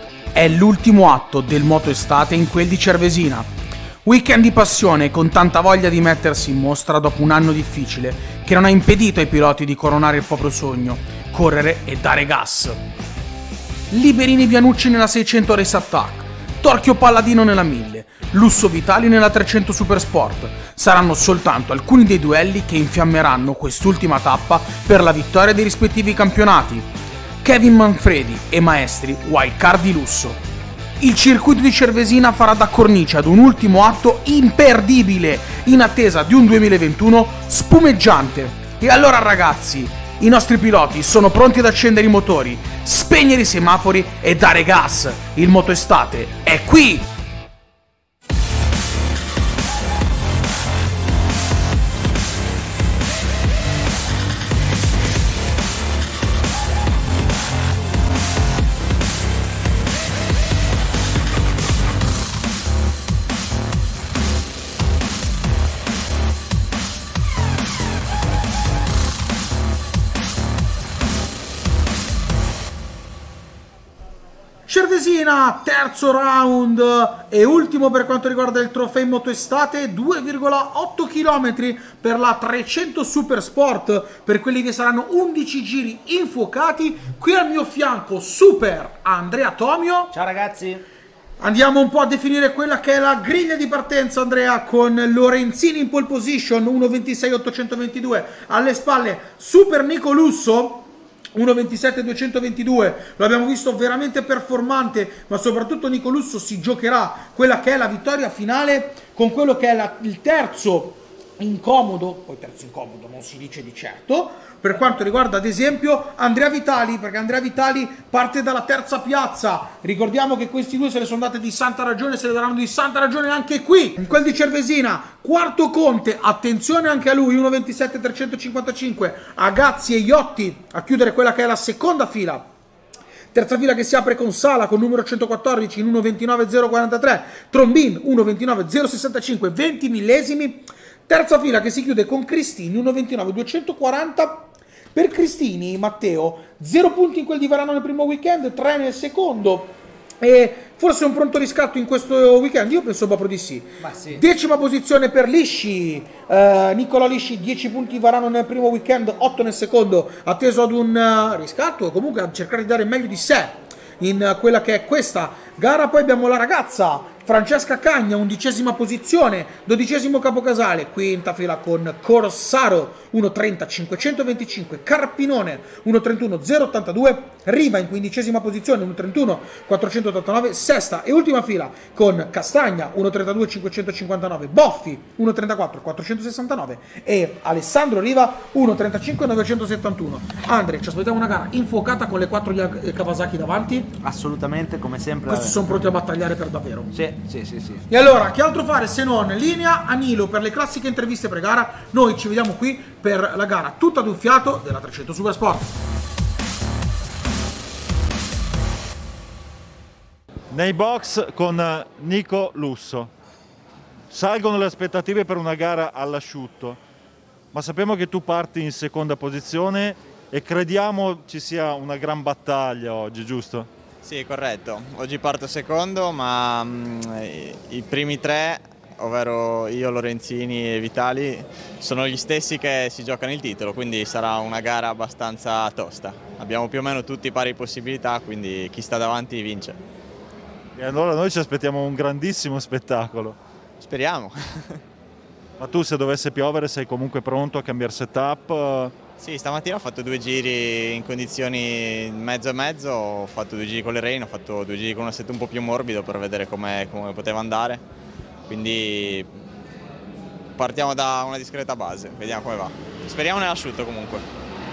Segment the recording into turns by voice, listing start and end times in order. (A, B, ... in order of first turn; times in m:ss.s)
0:00.3-0:03.5 A
0:04.0-0:12.8 A
0:13.9-0:26.9 A
0:27.4-0:30.4 A
0:31.0-0:47.0 A
1:14.7-1:30.1 A
1:30.1-1:30.8 B
1:31.4-2:12.4 A
2:13.3-3:13.9 A
2:33.8-2:34.2 B
3:14.0-3:15.9 B
3:15.3-3:16.9 A
3:16.9-3:17.9 B
3:17.9-3:25.7 A
3:30.5-3:33.1 C
3:34.1-3:36.8 C
3:37.5-3:43.7 C
3:44.0-3:59.8 D
4:00.8-4:03.4 C
4:03.8-4:04.8 D
4:05.6-4:09.0 C
4:09.2-4:17.8 D
4:18.5-4:19.3 D
4:20.6-4:24.2 D